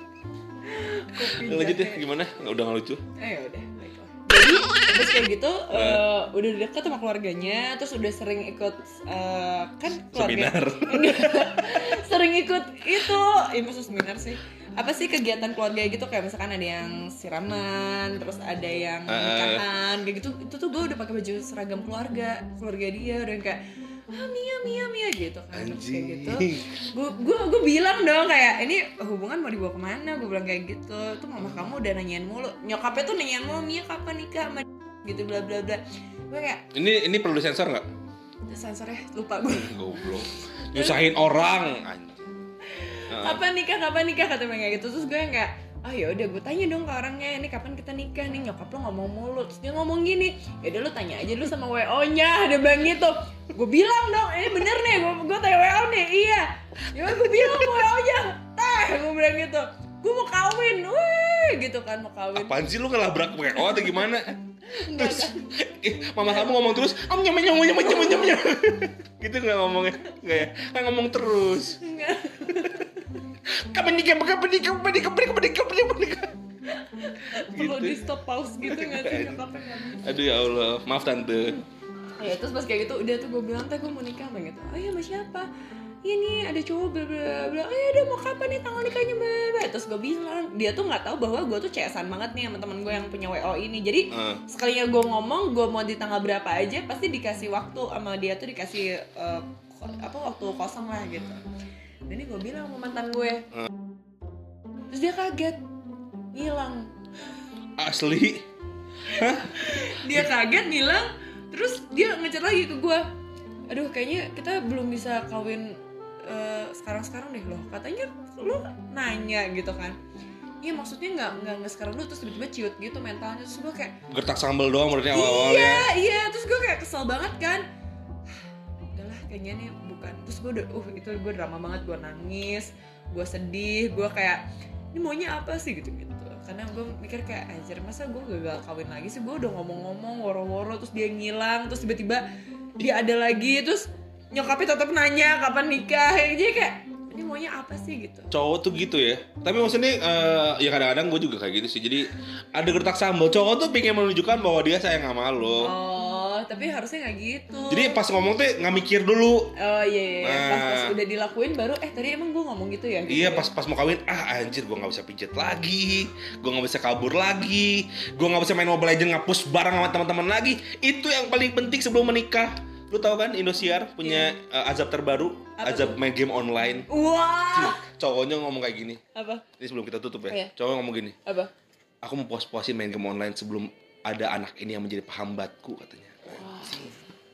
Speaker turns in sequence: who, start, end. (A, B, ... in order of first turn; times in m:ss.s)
0:00.6-0:02.0 A
0:01.1-0:03.0 B
0:03.2-0:36.6 A
0:05.7-0:06.1 B
0:10.1-0:11.6 B
0:19.1-0:19.6 B
0:25.5-0:26.6 B
0:36.7-0:37.8 B
0:38.5-0:40.2 A
0:39.5-0:42.3 B
0:40.7-0:41.0 A
0:42.7-1:02.6 A
0:43.1-0:43.4 B
0:57.4-0:57.7 B
1:02.3-1:11.8 B
1:03.6-1:04.0 A
1:04.7-1:05.4 A
1:07.8-1:08.4 A
1:11.8-1:13.0 A
1:13.7-1:16.3 B
1:16.7-1:20.1 A
1:17.5-1:19.4 B
1:20.0-1:21.6 B
1:22.2-1:25.5 A
1:26.0-1:41.4 A
1:34.1-1:34.4 B
1:42.1-1:43.4 A
1:44.9-1:45.6 A
1:46.3-1:46.9 A
1:47.8-1:48.4 B
1:49.1-1:49.5 B
1:49.1-1:53.1 A
1:53.7-2:00.0 A
2:00.6-2:04.0 A
2:04.1-2:05.9 B
2:05.1-2:07.6 A
2:08.9-2:22.2 A
2:22.8-2:28.3 A
2:28.3-2:35.7 B
2:35.6-2:38.0 A
2:37.7-2:39.5 B
2:39.6-2:43.5 A
2:40.2-2:40.9 B
2:43.1-2:56.9 B
2:54.0-2:54.3 A
2:55.6-2:56.0 A
2:56.9-2:57.8 A
2:57.5-2:59.0 B
2:59.1-2:59.4 A
2:59.6-3:01.1 B
3:01.2-3:01.5 A
3:02.0-3:06.9 B
3:06.3-3:07.0 A